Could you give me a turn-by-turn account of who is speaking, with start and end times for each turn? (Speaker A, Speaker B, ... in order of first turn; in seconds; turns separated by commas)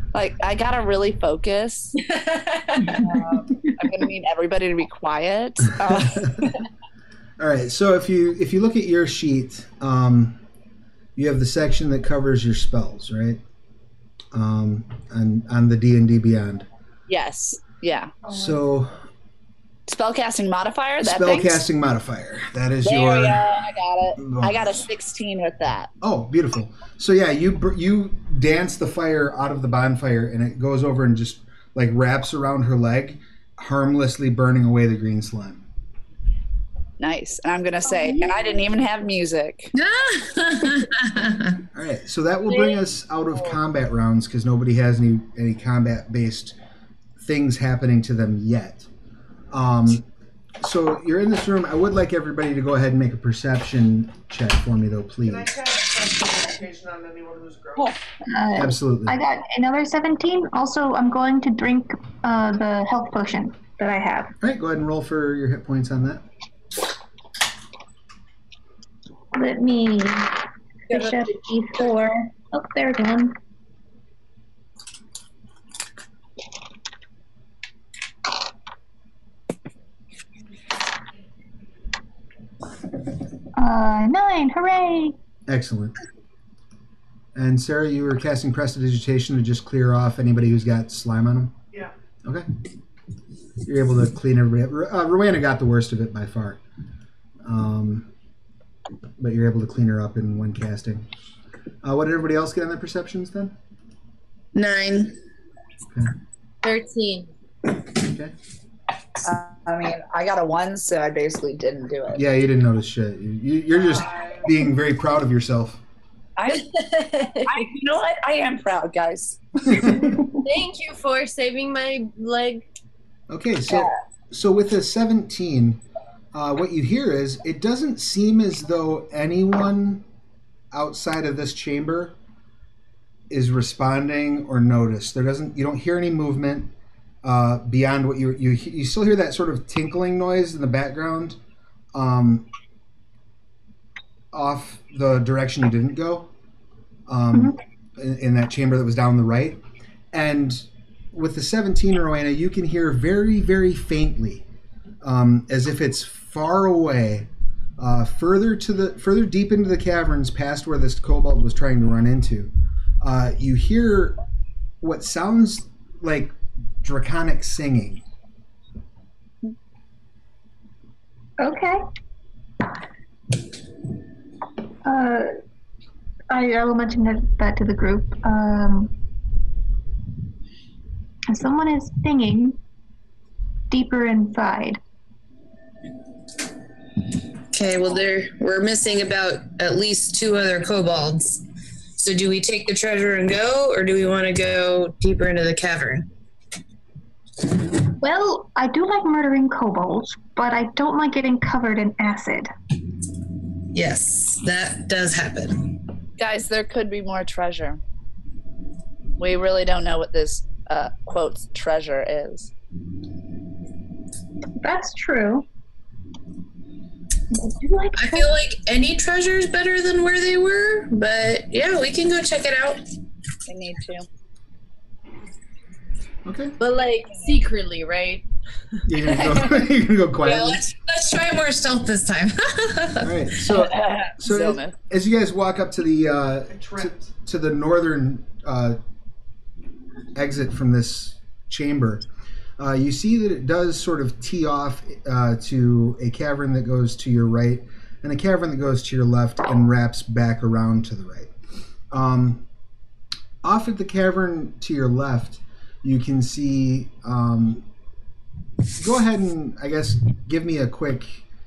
Speaker A: 0.1-2.0, Speaker B: 2.0-3.0, Speaker A: 2.8-6.5, Speaker C: 6.0-6.3, Speaker C: 7.4-10.4, Speaker C: 11.2-13.4, Speaker C: 14.3-16.7, Speaker A: 17.1-18.1, Speaker D: 18.2-18.6, Speaker C: 18.3-19.0, Speaker A: 19.9-21.6, Speaker C: 21.0-23.4, Speaker A: 22.8-25.9, Speaker C: 24.2-24.9, Speaker C: 26.0-35.7, Speaker A: 37.0-39.7, Speaker E: 38.0-38.6, Speaker F: 39.7-41.6, Speaker C: 41.7-46.6, Speaker B: 42.5-42.8, Speaker C: 47.2-48.9, Speaker C: 49.5-50.1, Speaker C: 50.6-55.5, Speaker D: 55.2-58.0, Speaker E: 58.3-64.3, Speaker C: 58.6-59.2, Speaker C: 64.4-66.2, Speaker E: 69.3-70.4, Speaker E: 70.9-73.3, Speaker E: 83.6-85.1, Speaker C: 85.5-85.9, Speaker C: 87.3-91.5, Speaker C: 93.6-96.6, Speaker C: 97.4-98.1, Speaker C: 99.2-101.1, Speaker C: 101.8-103.5, Speaker F: 104.5-105.1, Speaker B: 106.6-107.3, Speaker C: 108.0-108.3, Speaker A: 109.2-112.2, Speaker C: 112.1-115.8, Speaker D: 113.7-114.6, Speaker A: 116.4-116.7, Speaker B: 116.5-117.5, Speaker A: 117.4-119.8, Speaker C: 119.6-120.2, Speaker B: 120.3-122.7, Speaker C: 123.3-125.8, Speaker C: 126.3-130.0, Speaker C: 130.7-132.1, Speaker C: 133.3-136.7, Speaker C: 137.2-141.4, Speaker C: 141.9-142.5, Speaker C: 144.3-146.3, Speaker C: 147.1-149.6, Speaker C: 150.1-154.4, Speaker C: 155.0-157.3, Speaker C: 157.8-164.2, Speaker C: 164.8-168.0, Speaker E: 171.4-171.8, Speaker E: 174.8-175.3, Speaker E: 176.3-178.9, Speaker E: 181.3-182.6, Speaker E: 183.7-184.8, Speaker F: 187.5-191.4, Speaker F: 192.0-196.1, Speaker E: 198.0-202.5, Speaker F: 203.7-205.6, Speaker A: 206.2-207.8, Speaker A: 209.2-212.5, Speaker E: 214.6-215.5, Speaker E: 217.3-218.3, Speaker F: 217.9-222.8, Speaker A: 223.5-224.1, Speaker C: 226.3-226.6, Speaker B: 226.6-228.2, Speaker C: 228.9-230.6, Speaker F: 230.2-233.1, Speaker C: 233.0-238.8, Speaker A: 233.5-234.8, Speaker D: 236.5-237.1, Speaker C: 240.2-242.1, Speaker C: 242.6-251.3, Speaker C: 251.9-252.4, Speaker C: 253.4-257.6, Speaker C: 258.8-261.2